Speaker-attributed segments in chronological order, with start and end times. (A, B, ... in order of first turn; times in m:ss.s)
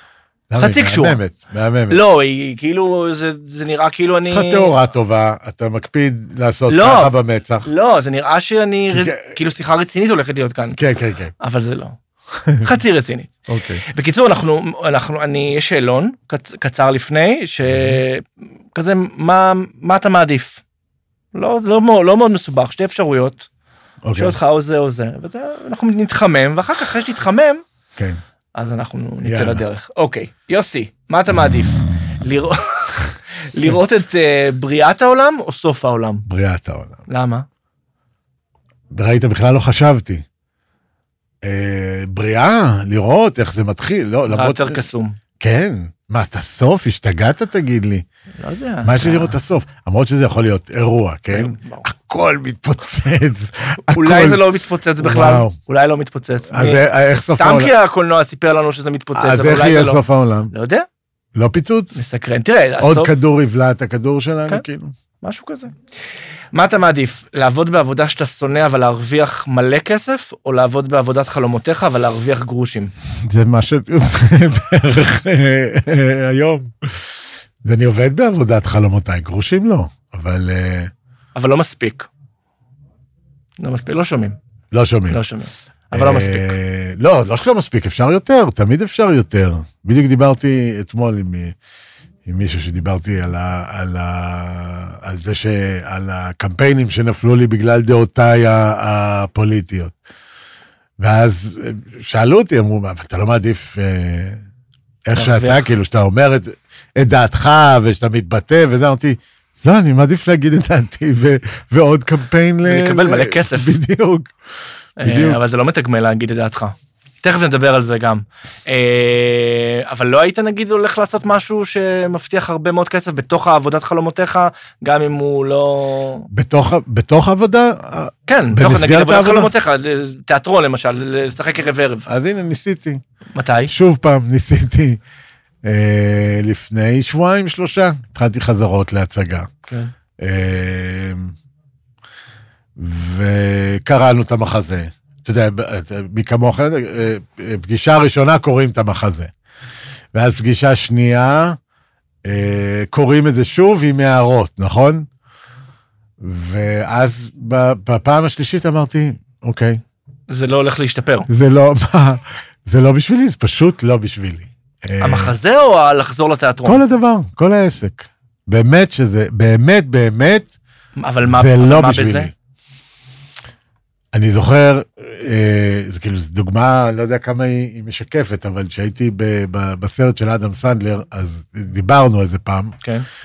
0:00.5-0:02.0 A
0:00.6-0:01.2 B
0:01.9-0:04.8 B
0:04.3-0:07.7 A
0:06.7-0:10.8 B
0:08.9-0:09.4 A
0:10.8-0:11.3 A
0:11.4-0:12.0 B
0:12.6-0:13.3 B
0:13.5-0:13.8 A
0:13.9-0:20.6 B
0:17.7-0:18.0 A
0:21.3-0:23.5 B
0:24.0-0:24.4 A
0:24.1-0:27.6 B
0:28.6-0:36.2 B
0:29.2-0:29.6 A
0:36.3-0:37.0 A
0:37.1-0:37.5 B
0:38.9-0:40.2 A
0:41.4-0:44.8 A
0:44.3-0:45.2 B
0:45.4-0:48.0 A
0:48.4-0:49.4 B
0:48.8-0:55.6 A
0:51.3-0:51.9 B
0:53.9-1:00.9 B
0:56.5-0:57.7 A
0:59.2-1:00.5 A
1:01.4-1:02.0 A
1:02.0-1:03.1 B
1:02.8-1:05.0 A
1:05.2-1:05.7 B
1:06.5-1:12.9 B
1:13.2-1:17.0 A
1:17.6-1:20.9 A
1:21.4-1:22.1 B
1:23.6-1:24.4 B
1:24.7-1:25.2 A
1:25.1-1:26.6 B
1:25.9-1:31.5 A
1:32.3-1:40.0 A
1:41.0-1:44.4 A
1:45.1-1:54.3 A
1:45.2-1:45.7 B
1:52.6-1:53.8 B
1:55.0-2:06.3 B
1:55.0-1:55.4 A
2:06.3-2:09.5 A
2:08.3-2:12.1 B
2:12.1-2:13.0 A
2:13.4-2:13.7 B
2:13.7-2:15.0 A
2:15.6-2:19.5 A
2:20.2-2:21.3 A
2:22.8-2:29.3 A
2:30.1-2:31.6 A
2:32.2-2:35.1 A
2:36.2-2:39.8 A
2:40.3-2:41.3 B
2:41.3-2:45.4 A
2:45.0-2:46.8 B
2:46.7-2:50.6 A
2:51.0-2:52.3 B
2:51.2-2:52.3 A
2:54.1-3:02.8 A